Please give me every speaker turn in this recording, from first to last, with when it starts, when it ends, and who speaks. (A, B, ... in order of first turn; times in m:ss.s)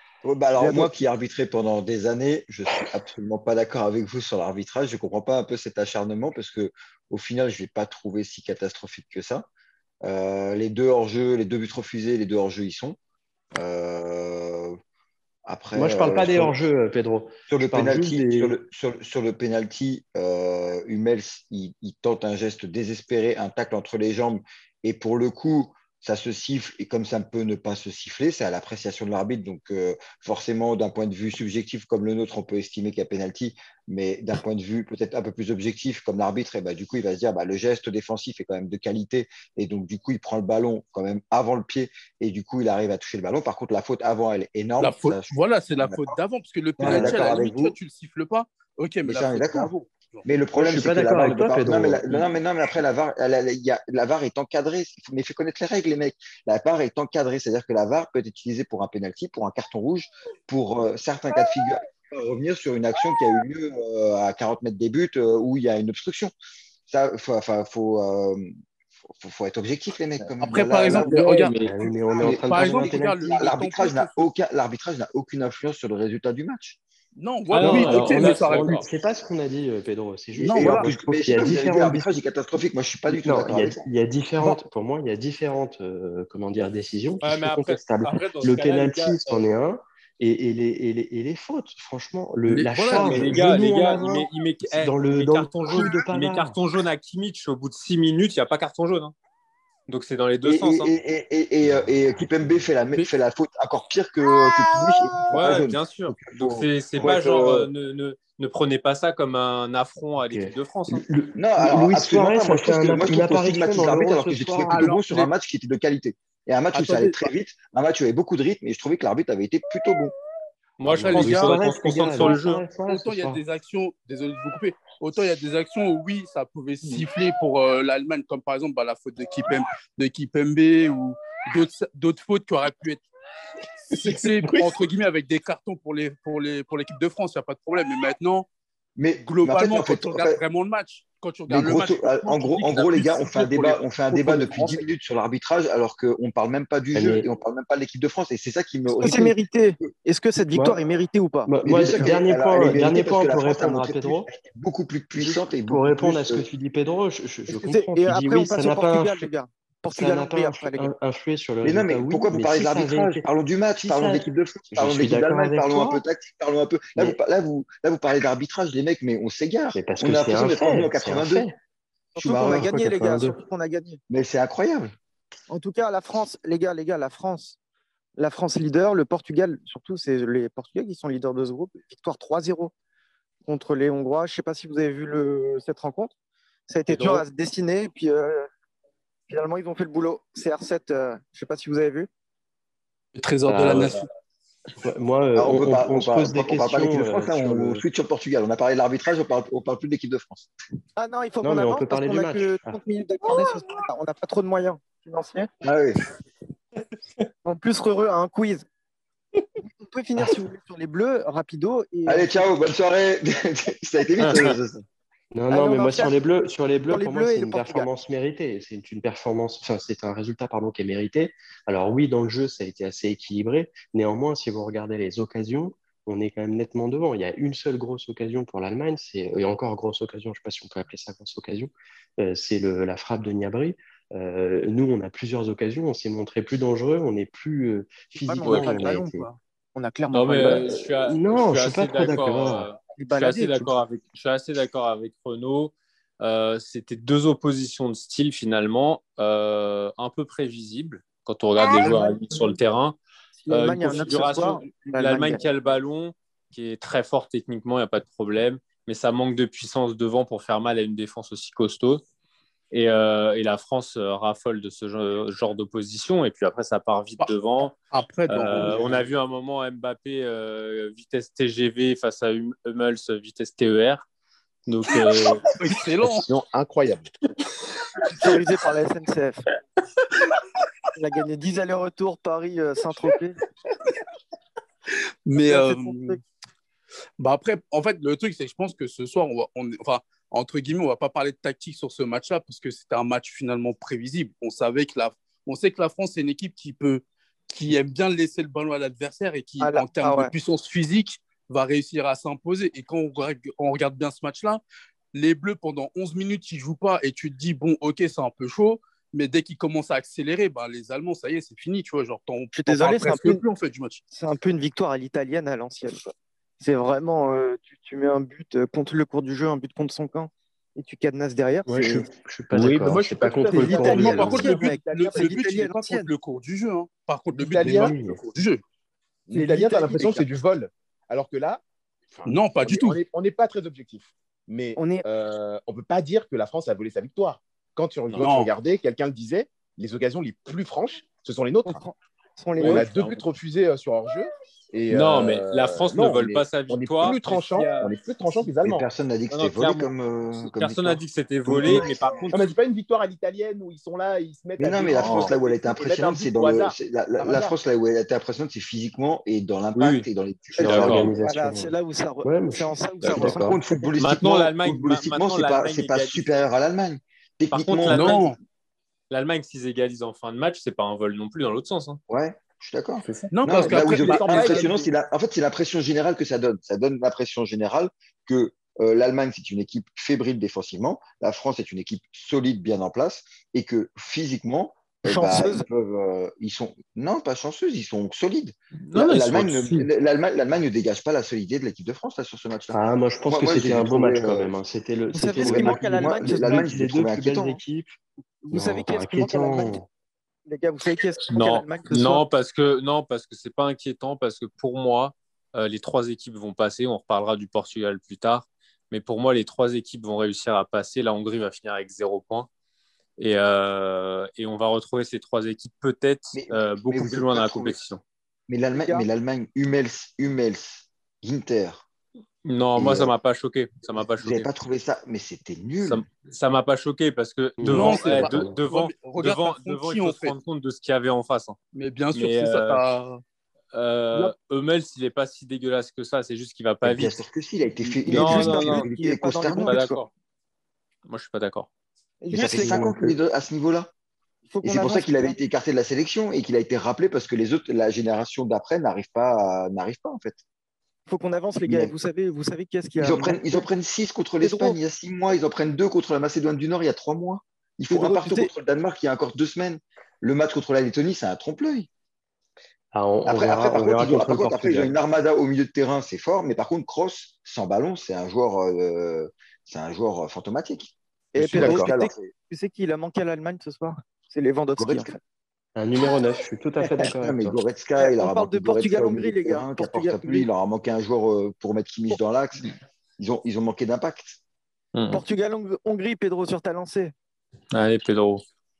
0:00.2-0:09.5 A
0:00.6-0:00.9 B
0:10.0-0:13.0 A
0:13.5-0:14.8 A
0:15.4-0:16.6 A
0:15.7-0:18.5 C
0:17.5-0:46.1 A
0:44.8-0:50.3 D
0:46.8-0:47.8 A
0:46.8-0:47.2 C
0:49.0-0:49.7 A
0:50.2-1:06.3 A
0:50.6-0:52.3 C
1:06.9-1:08.5 A
1:09.1-1:11.2 A
1:10.4-1:14.2 D
1:10.9-1:11.7 E
1:11.6-1:13.2 C
1:12.2-1:16.8 A
1:17.2-1:18.8 D
1:17.5-1:18.8 E
1:17.6-1:22.1 C
1:20.4-1:23.9 A
1:20.4-1:20.9 D
1:23.1-1:36.6 C
1:27.2-1:29.4 E
1:32.4-1:33.7 D
1:32.9-1:39.1 E
1:39.9-1:40.9 E
1:40.4-1:47.7 A
1:45.3-1:51.0 E
1:50.2-1:54.9 C
1:51.4-2:00.1 A
1:54.7-1:55.3 D
1:56.7-1:57.2 D
2:00.8-2:02.6 E
2:00.9-2:03.4 C
2:00.9-2:13.0 D
2:13.9-2:18.5 D
2:19.0-2:20.4 A
2:19.2-2:24.8 D
2:21.5-2:29.9 A
2:26.9-2:27.3 C
2:28.9-2:32.1 B
2:30.5-2:30.8 C
2:31.5-2:34.3 C
2:31.6-2:36.5 A
2:35.2-2:39.3 C
2:37.5-2:40.9 B
2:39.9-2:43.2 C
2:41.6-2:51.5 A
2:43.8-2:46.0 C
2:49.7-2:51.5 C
2:52.2-2:54.0 B
2:52.2-2:52.7 A
2:52.3-2:53.4 C
2:54.1-2:54.9 A
2:55.5-2:57.6 B
2:58.2-3:02.7 B
3:03.4-3:06.1 B
3:06.7-3:08.5 B
3:06.9-3:07.2 E
3:09.3-3:12.1 B
3:13.1-3:14.1 D
3:13.4-3:14.0 C
3:14.8-3:17.8 C
3:15.3-3:20.5 A
3:21.0-3:25.5 B
3:21.4-3:22.8 C
3:25.6-3:26.0 A
3:27.4-3:28.6 B
3:29.8-3:32.4 B
3:32.0-3:34.8 A
3:34.2-3:34.6 E
3:35.3-3:59.2 C
3:35.5-3:36.1 B
3:36.9-3:37.9 B
3:58.1-4:00.7 B
3:58.4-3:58.9 E
4:00.1-4:13.0 E
4:00.4-4:02.7 C
4:03.0-4:03.7 B
4:11.8-4:12.2 B
4:13.4-4:15.4 B
4:13.5-4:22.0 E
4:22.7-4:27.8 E
4:27.9-4:29.0 D
4:28.3-4:34.0 E
4:34.7-4:35.5 E
4:35.6-4:36.3 D
4:36.1-4:37.1 F
4:38.1-4:39.4 B
4:40.9-4:43.4 B
4:45.2-4:46.2 D
4:45.4-4:46.2 B
4:47.2-5:04.6 D
4:59.6-5:00.3 B
5:05.1-5:14.0 D
5:12.5-5:13.4 B
5:14.1-5:16.0 B
5:16.6-5:22.1 B
5:21.6-5:24.6 C
5:22.5-5:23.0 E
5:23.3-5:25.5 F
5:23.5-5:26.1 B
5:23.6-5:28.6 D
5:27.3-5:28.0 F
5:27.6-5:28.2 C
5:29.3-5:41.8 F
5:29.3-5:30.2 B
5:32.2-5:33.0 D
5:34.8-5:35.0 B
5:38.2-5:38.5 D
5:41.6-5:42.8 B
5:42.6-5:43.2 E
5:42.6-5:48.8 F
5:44.9-5:47.9 E
5:48.6-5:52.3 A
5:49.3-5:52.5 E
5:51.6-5:57.5 F
5:54.6-6:01.1 A
5:59.8-6:00.1 E
6:00.6-6:03.6 C
6:00.6-6:01.1 E
6:01.2-6:03.6 B
6:03.1-6:08.2 A
6:04.0-6:06.2 E
6:07.5-6:08.3 E
6:07.9-6:08.4 D
6:09.1-6:12.0 E
6:12.1-6:34.5 A
6:13.0-6:14.4 E
6:13.3-6:14.7 D
6:14.1-6:14.5 F
6:25.0-6:25.6 B
6:28.8-6:29.9 E
6:32.7-6:38.0 C
6:35.1-6:36.7 B
6:35.4-6:37.6 A
6:38.4-6:39.8 B
6:38.5-6:39.9 C
6:40.4-6:42.2 B
6:41.3-6:52.5 E
6:53.2-6:58.0 E
6:56.3-6:57.8 A
6:58.5-7:01.8 A
6:58.7-6:59.0 B
7:02.4-7:04.5 E
7:02.8-7:03.1 A
7:04.0-7:06.0 A
7:05.8-7:11.6 E
7:07.6-7:08.6 C
7:07.6-7:10.4 D
7:11.7-7:13.2 D
7:12.1-7:12.8 E
7:13.7-7:17.2 E
7:16.8-7:19.8 A
7:17.9-7:20.0 B
7:18.1-7:18.9 E
7:19.6-7:20.1 E
7:21.0-7:21.7 E
7:22.2-7:22.9 B
7:22.3-7:23.9 A
7:22.4-7:23.1 C
7:24.5-7:25.4 B
7:24.6-7:30.4 A
7:31.1-7:33.6 B
7:31.7-7:31.9 A
7:33.0-7:41.9 A
7:34.4-7:34.8 B
7:37.9-7:38.5 B
7:42.9-7:45.0 C
7:43.2-7:52.3 A
7:51.3-7:55.2 B
7:51.6-7:51.9 F
7:54.8-7:55.1 A
7:55.8-7:57.6 C
7:57.0-8:04.4 A
7:58.0-8:00.5 B
8:04.9-8:05.2 E
8:05.1-8:07.1 B
8:07.7-8:08.4 E